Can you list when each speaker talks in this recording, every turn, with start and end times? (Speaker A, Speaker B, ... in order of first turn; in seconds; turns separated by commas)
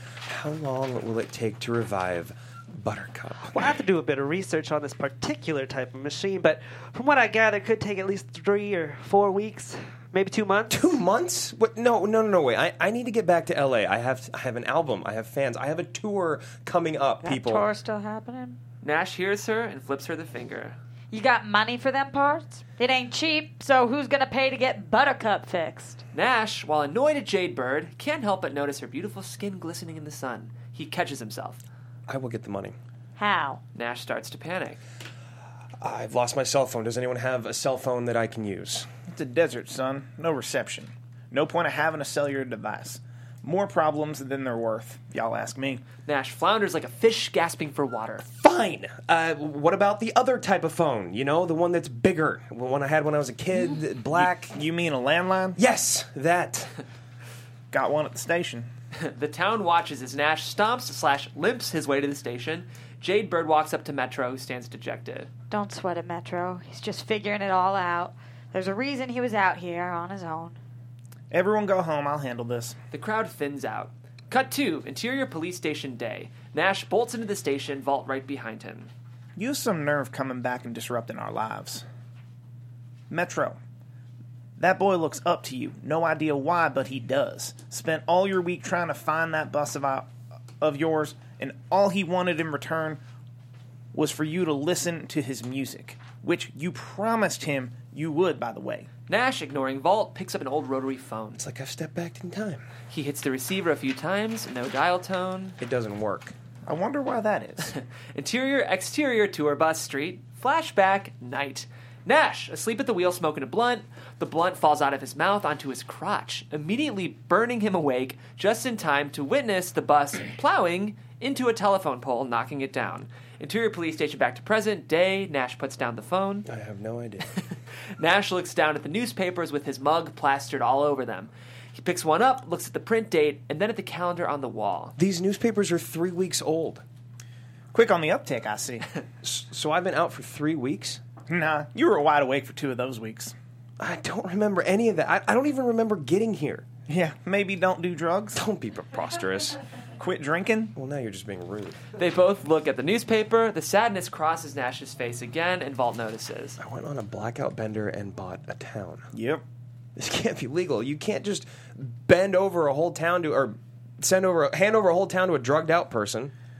Speaker A: 0.2-3.6, Speaker B: 3.5-10.8, Speaker A: 10.7-17.7, Speaker C: 17.2-18.6, Speaker D: 18.8-20.8, Speaker C: 21.1-26.0, Speaker D: 26.1-31.6, Speaker A: 32.1-32.8, Speaker C: 33.2-33.6, Speaker D: 33.7-34.8, Speaker A: 35.8-38.9, Speaker E: 39.1-45.8, Speaker D: 46.0-48.2, Speaker A: 48.3-54.6, Speaker E: 54.5-55.6, Speaker A: 55.5-56.8, Speaker E: 57.7-58.7, Speaker D: 59.0-65.3, Speaker C: 65.5-70.5, Speaker E: 71.3-72.8, Speaker D: 72.9-78.9, Speaker E: 79.4-81.8, Speaker E: 83.1-83.6, Speaker E: 84.6-93.0, Speaker E: 93.9-98.9, Speaker D: 99.1-101.4, Speaker A: 101.4-102.7, Speaker D: 102.9-105.6, Speaker A: 105.6-106.3, Speaker E: 106.7-107.7, Speaker D: 107.7-126.5, Speaker A: 126.5-127.3, Speaker D: 128.0-134.9, Speaker A: 135.0-136.8, Speaker E: 137.7-138.8, Speaker A: 139.2-141.0, Speaker E: 141.3-143.3, Speaker A: 143.8-146.7, Speaker E: 146.9-148.4, Speaker A: 148.3-149.6, Speaker E: 150.0-150.7, Speaker A: 150.7-151.8, Speaker D: 152.0-156.6, Speaker A: 156.6-159.1, Speaker E: 159.1-159.4, Speaker A: 160.0-166.3